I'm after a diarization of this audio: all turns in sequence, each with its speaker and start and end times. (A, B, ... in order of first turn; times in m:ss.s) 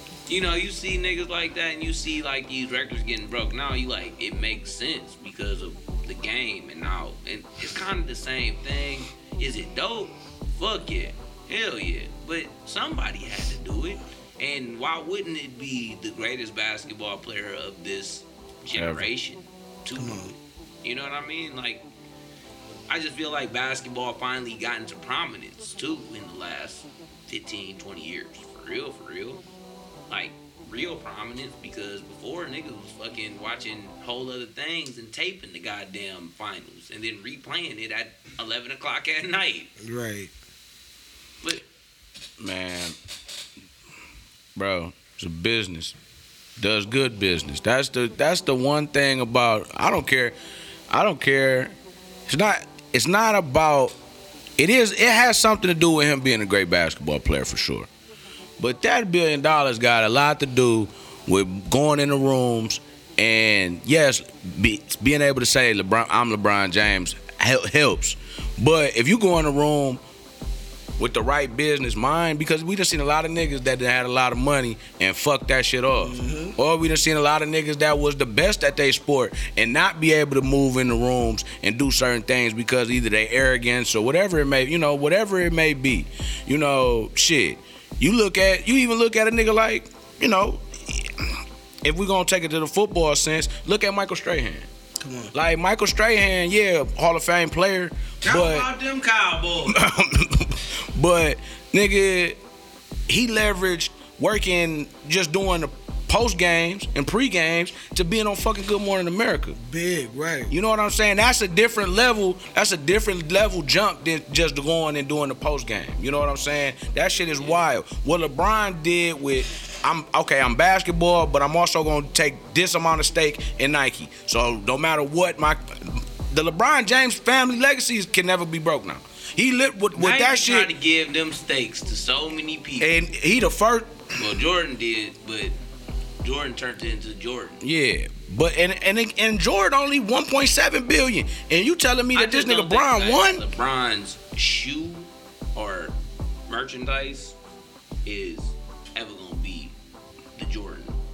0:00.3-0:21.8 A
0:18.8-0:19.1 B
0:20.0-0:20.3 C
0:22.9-0:29.4 A
0:30.1-0:39.7 A
0:39.8-0:40.3 C
0:42.4-0:43.0 B
0:44.6-0:46.0 B
0:46.6-0:50.4 B
0:50.9-0:51.8 B
0:52.3-0:53.9 B
0:54.6-0:57.9 B
0:58.6-1:10.0 B
1:11.0-1:34.7 B
1:16.0-1:16.6 C
1:35.0-1:35.3 C
1:35.3-1:38.7 B
1:38.2-1:39.8 A
1:39.7-1:42.4 B
1:43.1-1:49.6 B
1:49.6-1:50.5 C
1:50.5-2:10.7 B
2:10.0-2:12.9 A
2:12.8-2:14.0 B
2:14.2-2:15.5 A
2:16.2-2:17.6 A
2:17.6-2:23.4 B
2:22.2-2:26.0 A
2:26.5-2:27.4 A
2:28.0-2:29.7 A
2:30.4-2:31.0 A